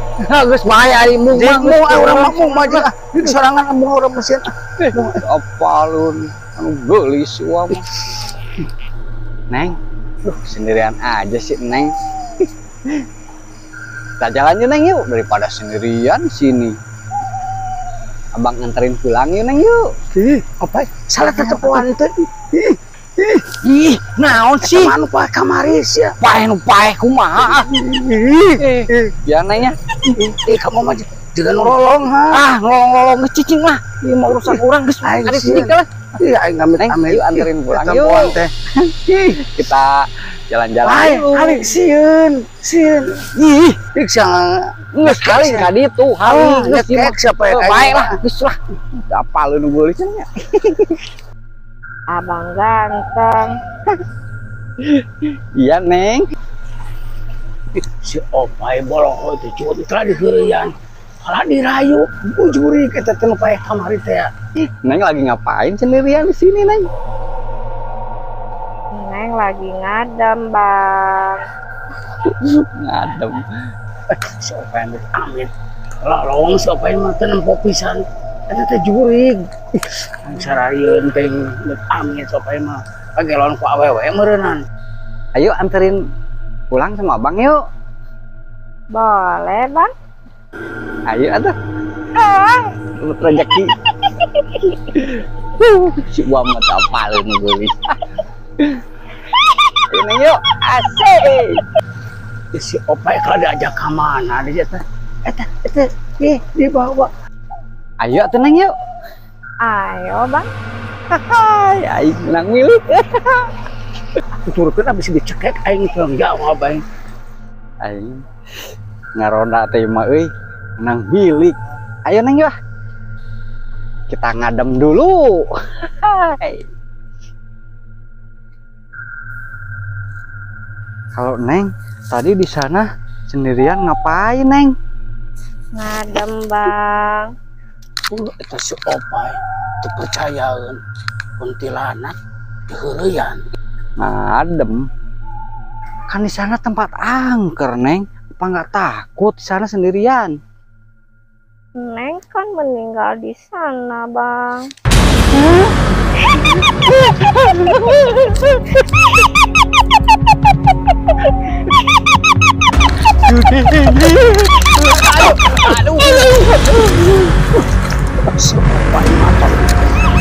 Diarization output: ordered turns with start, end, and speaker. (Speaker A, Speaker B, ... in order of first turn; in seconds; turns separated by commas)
Speaker A: 0.2-3.4, Speaker B: 1.1-5.2, Speaker A: 4.8-7.9, Speaker A: 9.5-13.0, Speaker A: 14.2-16.8, Speaker A: 18.3-19.9, Speaker B: 20.1-23.5, Speaker A: 21.2-21.9, Speaker A: 23.6-25.0, Speaker B: 24.6-26.1, Speaker A: 26.2-29.8, Speaker B: 27.4-28.6, Speaker B: 30.1-32.5, Speaker A: 31.6-35.9, Speaker B: 34.3-38.5, Speaker A: 36.8-38.4, Speaker A: 39.0-41.8, Speaker B: 40.8-43.3, Speaker A: 43.3-43.8, Speaker B: 43.9-45.7, Speaker A: 44.9-51.0, Speaker B: 46.2-48.2, Speaker C: 52.1-53.5, Speaker A: 54.8-56.2, Speaker B: 58.0-64.3, Speaker A: 64.6-66.9, Speaker C: 68.9-71.4, Speaker A: 72.2-73.5, Speaker B: 74.1-75.5, Speaker B: 76.0-84.6, Speaker A: 85.3-86.0, Speaker A: 86.7-87.6, Speaker C: 88.9-89.9, Speaker A: 91.1-91.5, Speaker A: 92.2-93.7, Speaker A: 94.9-98.0, Speaker A: 98.6-98.8, Speaker A: 99.7-101.7, Speaker B: 102.5-107.1, Speaker A: 108.0-108.7, Speaker C: 109.6-110.5, Speaker A: 111.1-113.5, Speaker B: 114.5-116.8, Speaker A: 117.8-118.2, Speaker A: 119.1-122.5, Speaker A: 124.1-126.7, Speaker A: 131.1-134.7, Speaker C: 135.8-137.3, Speaker B: 138.1-140.8, Speaker B: 141.4-142.1, Speaker B: 142.7-143.4, Speaker A: 144.0-144.8, Speaker A: 146.1-150.4, Speaker C: 151.8-154.6, Speaker A: 155.3-155.7, Speaker A: 156.5-158.7, Speaker A: 163.2-167.1, Speaker B: 164.6-166.9, Speaker B: 168.2-169.7